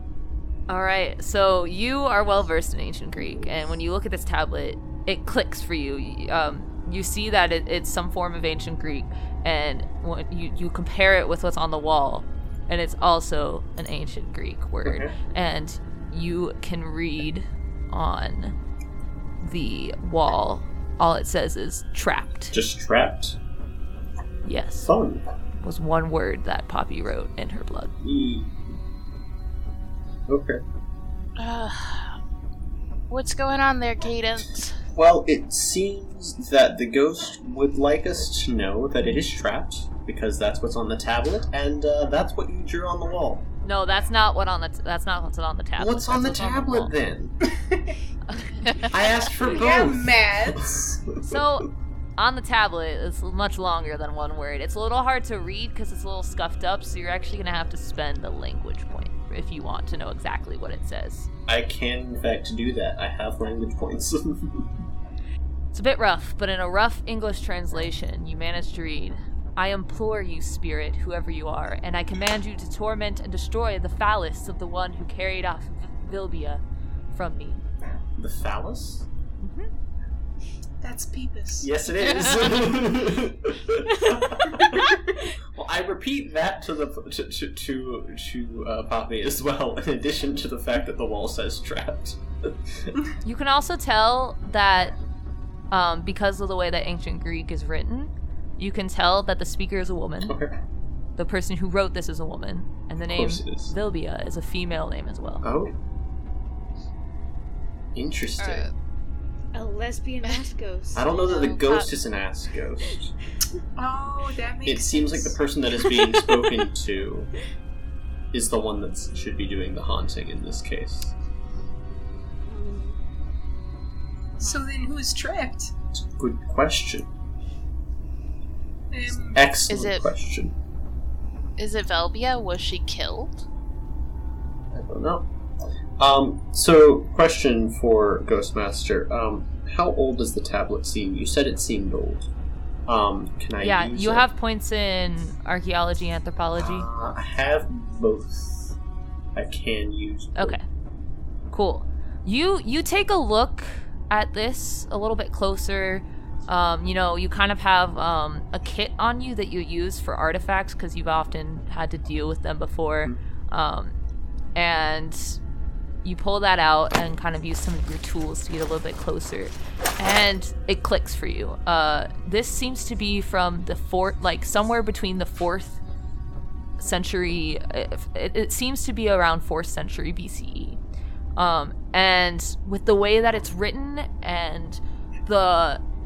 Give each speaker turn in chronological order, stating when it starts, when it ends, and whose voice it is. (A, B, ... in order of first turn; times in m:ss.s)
0:00.7-0:18.6 A
0:03.2-0:03.5 B
0:14.9-0:15.2 B
0:19.4-0:22.6 A
0:22.5-0:23.4 B
0:24.4-0:24.9 A
0:24.8-0:25.2 B
0:25.6-0:27.9 A
0:28.0-0:28.7 B
0:30.3-0:30.6 B
0:31.4-0:32.2 C
0:33.1-0:34.8 C
0:34.9-0:43.5 B
0:43.6-0:47.0 A
0:45.8-0:47.4 B
0:47.6-0:48.0 D
0:48.6-0:48.9 C
0:48.9-0:51.4 B
0:49.4-0:50.7 D
0:51.2-1:01.3 A
1:01.5-1:04.7 B
1:05.7-1:17.6 A
1:18.2-1:19.1 B
1:19.4-1:19.7 A
1:20.8-1:21.7 D
1:21.6-1:32.9 B
1:22.0-1:22.7 C
1:33.2-1:35.0 A
1:35.7-1:40.4 A
1:40.2-1:40.5 B
1:41.2-1:45.4 A
1:43.1-1:43.7 B
1:45.4-1:45.8 B
1:48.0-1:48.7 B
1:48.4-1:48.7 C
1:49.5-1:51.7 E
1:50.9-1:53.1 B
1:51.2-1:51.9 C
1:53.8-1:55.4 D
1:54.6-1:57.3 B
1:58.3-2:01.1 B
2:02.5-2:03.0 E
2:04.4-2:05.7 D
2:04.4-2:04.7 C
2:06.2-2:07.1 B
2:08.9-2:09.4 D
2:09.3-2:10.5 B
2:09.7-2:10.1 C
2:11.6-2:13.4 C
2:14.7-2:15.3 B
2:16.0-2:22.3 B
2:22.9-2:24.3 B
2:23.6-2:26.9 A
2:26.6-2:28.8 B
2:29.4-2:30.6 B
2:30.4-2:30.6 A
2:31.5-2:44.0 A
2:44.6-2:45.4 A
2:46.0-2:55.8 A
2:56.8-3:00.8 A
3:01.4-3:05.8 A